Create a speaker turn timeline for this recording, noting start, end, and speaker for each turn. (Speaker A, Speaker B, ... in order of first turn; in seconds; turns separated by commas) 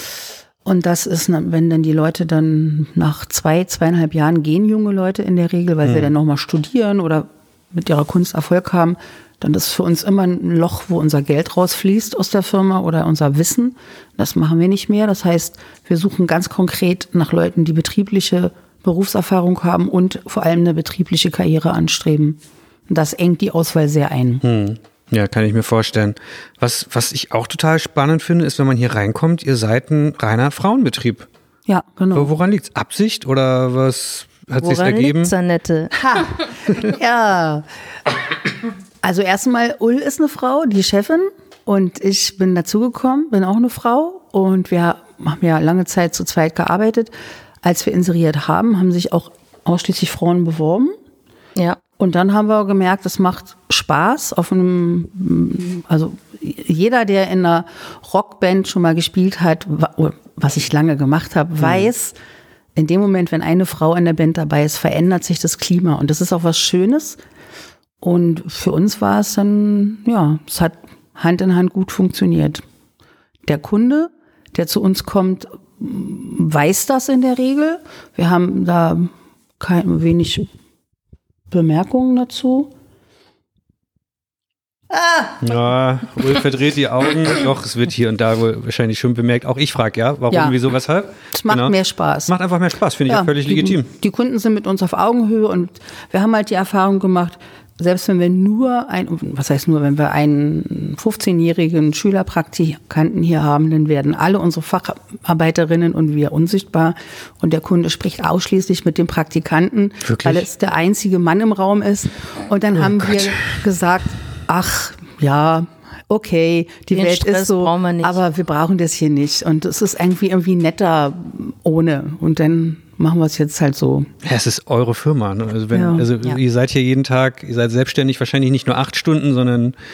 Speaker A: 0.6-24.4, Speaker B: 5.8-6.1, Speaker B: 24.4-31.3, Speaker A: 31.7-32.3, Speaker B: 32.1-35.3, Speaker C: 34.6-36.0, Speaker A: 36.0-37.7, Speaker A: 39.0-50.9, Speaker A: 52.0-62.2, Speaker B: 61.6-61.9, Speaker A: 62.8-67.2, Speaker A: 68.0-72.6, Speaker A: 73.5-80.5, Speaker A: 81.5-82.7, Speaker A: 84.9-85.5, Speaker B: 85.4-91.8, Speaker A: 90.3-90.6, Speaker A: 91.3-92.3, Speaker B: 92.3-93.9, Speaker A: 93.1-124.1, Speaker B: 110.0-110.5, Speaker C: 116.9-118.2, Speaker B: 124.2-129.8, Speaker A: 125.7-126.1